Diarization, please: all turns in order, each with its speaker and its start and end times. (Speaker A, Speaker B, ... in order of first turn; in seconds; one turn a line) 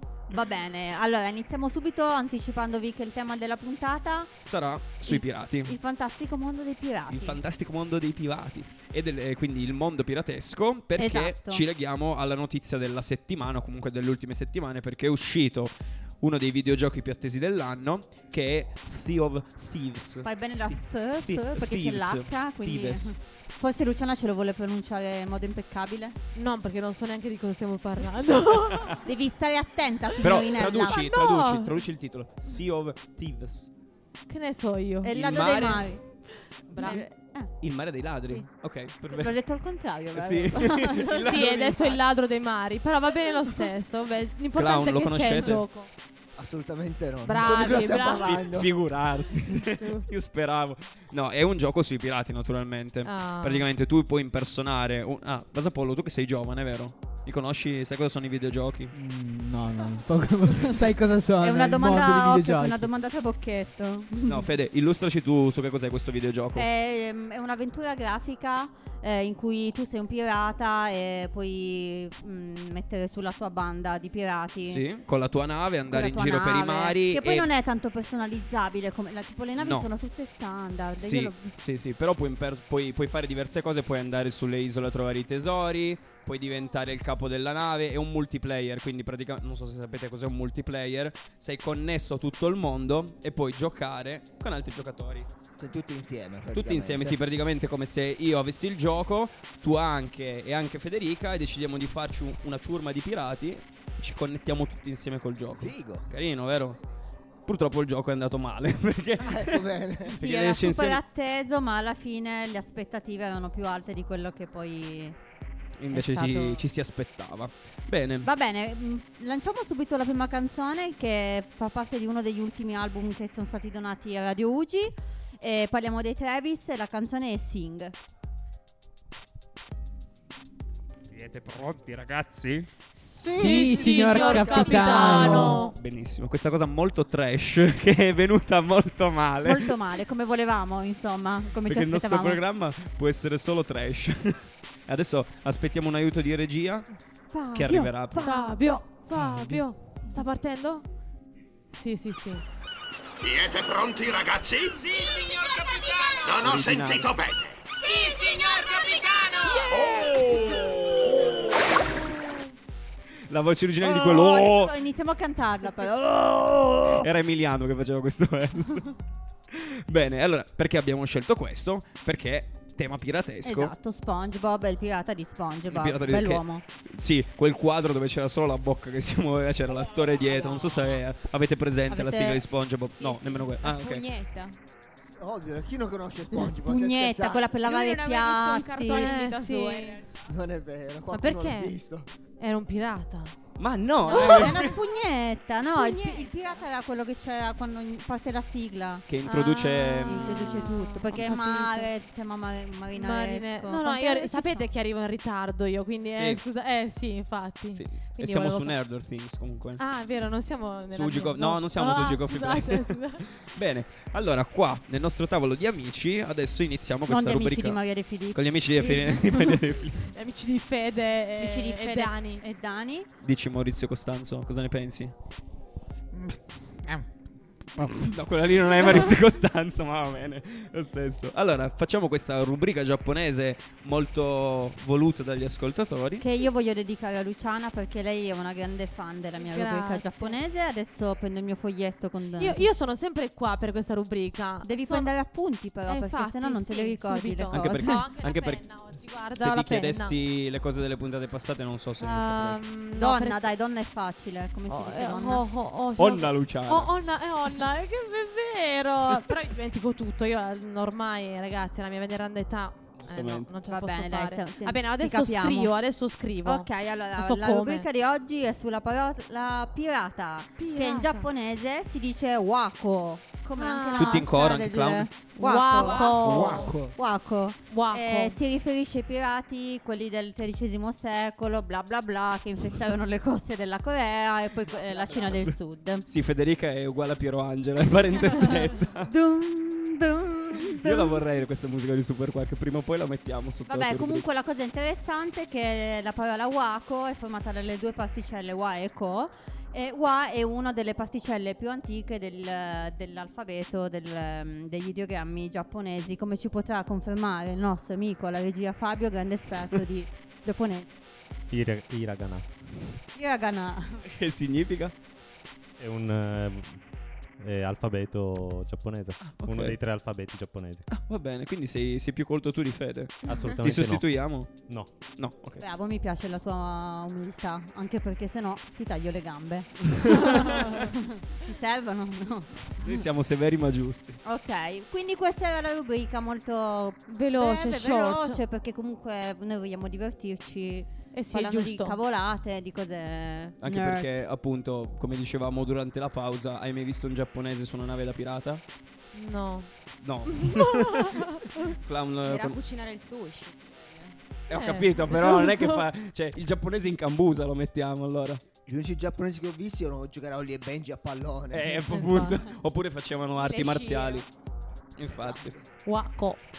Speaker A: 0.3-4.3
Speaker B: 4.4-5.8
Speaker A: 5.1-7.4
Speaker B: 7.1-23.1
Speaker A: 11.0-11.6
Speaker A: 20.2-26.2
Speaker C: 26.3-29.0
Speaker A: 29.0-31.0
Speaker C: 30.2-31.7
Speaker B: 30.2-33.7
Speaker C: 34.3-35.5
Speaker A: 35.0-36.0
Speaker B: 35.1-36.0
Speaker C: 36.7-37.0
Speaker A: 36.7-37.5
Speaker B: 37.6-39.4
Speaker A: 39.1-41.9
Speaker B: 40.1-42.0
Speaker C: 41.1-45.9
Speaker B: 44.5-45.6
Speaker D: 46.4-48.7
Speaker C: 47.2-48.3
Speaker B: 48.2-58.9
Speaker C: 49.8-50.0
Speaker C: 53.0-53.7
Speaker E: 58.9-62.9
Speaker A: 61.4-64.5
Speaker B: 64.2-66.7
Speaker A: 66.6-74.8
Speaker B: 74.6-77.5
Speaker A: 75.9-81.5
Speaker B: 79.6-79.9
Speaker B: 80.9-95.3
Speaker D: 95.6-97.2
Speaker B: 96.5-106.8
Speaker D: 105.6-106.1
Speaker B: 107.5-111.0
Speaker D: 109.2-110.1
Speaker A: 110.1-115.2
Speaker B: 115.8-118.3
Speaker A: 115.9-116.6
Speaker A: 118.2-127.9
Speaker B: 131.1-132.7
Speaker E: 133.1-135.6
Speaker C: 133.2-135.8
Speaker A: 133.2-135.6
Speaker B: 135.7-139.8
Speaker A: 139.4-142.4
Speaker B: 141.7-146.9
Speaker A: 147.3-148.6
Speaker B: 147.5-148.2
Speaker C: 148.2-150.8
Speaker E: 149.2-149.5
Speaker C: 151.7-152.4
Speaker F: 153.2-158.3
Speaker B: 156.3-157.1
Speaker F: 159.8-160.9
Speaker B: 159.8-161.5
Speaker B: 163.3-164.7
Speaker A: 163.8-167.1
Speaker B: 167.0-168.9
Speaker B: 169.5-173.7
Speaker A: 173.4-176.6
Speaker B: 175.7-184.1
Speaker A: 180.4-180.7
Speaker A: 181.9-182.4
Speaker A: 183.1-183.4
Speaker G: 183.6-184.6
Speaker D: 185.1-187.5
Speaker A: 186.4-189.1
Speaker G: 187.6-190.3
Speaker C: 188.9-190.0
Speaker D: 190.2-192.1
Speaker C: 191.1-191.7
Speaker C: 192.4-193.3
Speaker B: 193.6-194.8
Speaker A: 194.1-199.1
Speaker C: 194.1-194.5
Speaker G: 195.7-196.6
Speaker B: 199.1-200.7
Speaker C: 199.3-201.9
Speaker A: 200.1-204.7
Speaker C: 202.9-208.8
Speaker B: 206.1-206.4
Speaker B: 207.8-209.8
Speaker C: 209.8-213.2
Speaker B: 210.9-217.8
Speaker A: 217.1-219.6
Speaker B: 218.3-220.0
Speaker C: 220.1-222.4
Speaker A: 221.4-223.1
Speaker B: 223.2-225.1
Speaker E: 226.1-227.1
Speaker E: 227.7-228.1
Speaker B: 228.0-236.2
Speaker A: 236.2-242.6
Speaker C: 239.4-240.4
Speaker C: 242.4-245.1
Speaker A: 244.6-248.1
Speaker C: 245.9-250.2
Speaker B: 247.5-252.6
Speaker C: 252.0-253.5
Speaker A: 252.9-255.4
Speaker C: 254.7-267.9
Speaker B: 256.0-256.9
Speaker B: 263.0-263.5
Speaker A: 263.6-265.7
Speaker A: 266.4-286.1
Speaker C: 270.6-271.3
Speaker C: 273.6-274.3
Speaker B: 274.0-275.1
Speaker C: 275.4-276.7
Speaker E: 276.0-276.9
Speaker C: 277.7-278.4
Speaker D: 284.9-285.4
Speaker B: 286.1-289.1
Speaker A: 288.4-291.2
Speaker B: 290.7-294.2
Speaker A: 293.7-310.9
Speaker H: 311.5-312.5
Speaker A: 313.1-314.0
Speaker B: 314.1-314.9
Speaker H: 315.8-316.8
Speaker H: 317.4-320.9
Speaker B: 319.2-319.8
Speaker B: 320.9-324.5
Speaker H: 323.2-324.9
Speaker B: 325.1-325.6
Speaker A: 325.6-333.0
Speaker B: 330.0-330.4
Speaker B: 332.8-334.2
Speaker A: 334.2-344.2
Speaker C: 337.1-338.4
Speaker C: 341.1-342.0
Speaker B: 343.6-348.6
Speaker C: 349.1-349.7
Speaker B: 350.0-352.6
Speaker C: 350.3-351.6
Speaker G: 352.2-354.2
Speaker B: 354.5-358.4
Speaker C: 354.5-355.8
Speaker D: 358.6-361.8
Speaker B: 361.5-364.3
Speaker C: 361.7-362.4
Speaker G: 363.4-364.2
Speaker B: 365.0-365.5
Speaker D: 365.1-365.6
Speaker C: 365.9-366.4